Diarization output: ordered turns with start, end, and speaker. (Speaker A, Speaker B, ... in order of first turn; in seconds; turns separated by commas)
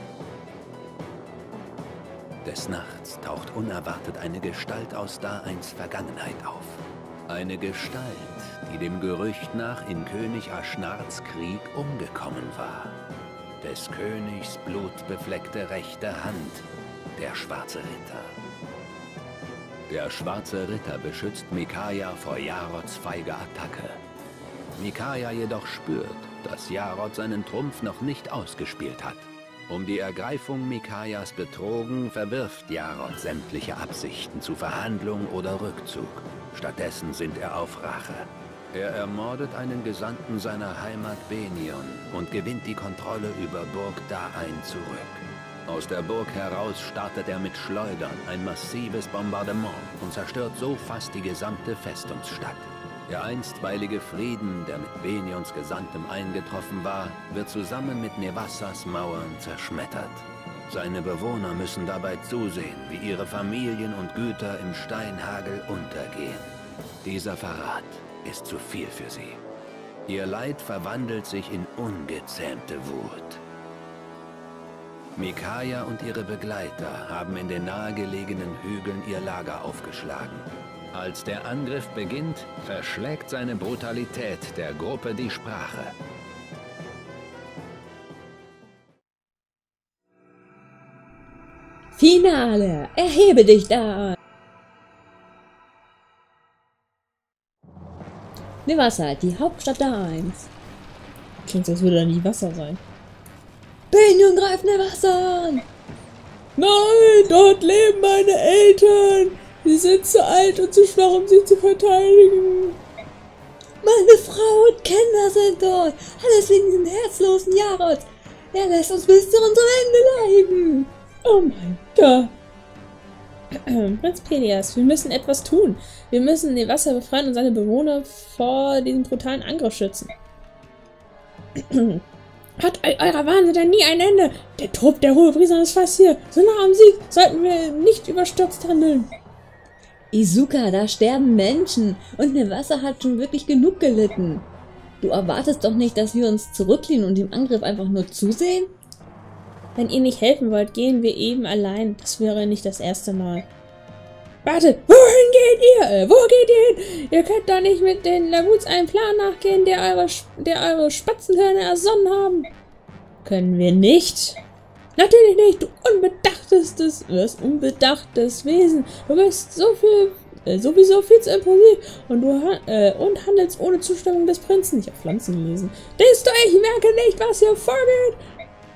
Speaker A: 2.4-13.0, Speaker A: 13.6-18.4, Speaker A: 19.9-24.0, Speaker A: 24.8-69.4, Speaker A: 70.0-73.4, Speaker A: 75.2-86.0, Speaker B: 91.9-94.2, Speaker B: 98.6-100.5, Speaker C: 101.4-102.8, Speaker B: 103.9-105.7, Speaker C: 106.6-112.8, Speaker B: 113.8-120.9, Speaker C: 121.2-122.3, Speaker C: 123.5-130.1, Speaker C: 131.6-132.0, Speaker C: 132.6-139.1, Speaker B: 140.1-144.5, Speaker B: 145.0-148.7, Speaker C: 149.8-153.5, Speaker C: 154.4-162.5, Speaker C: 163.2-164.4, Speaker C: 165.0-178.2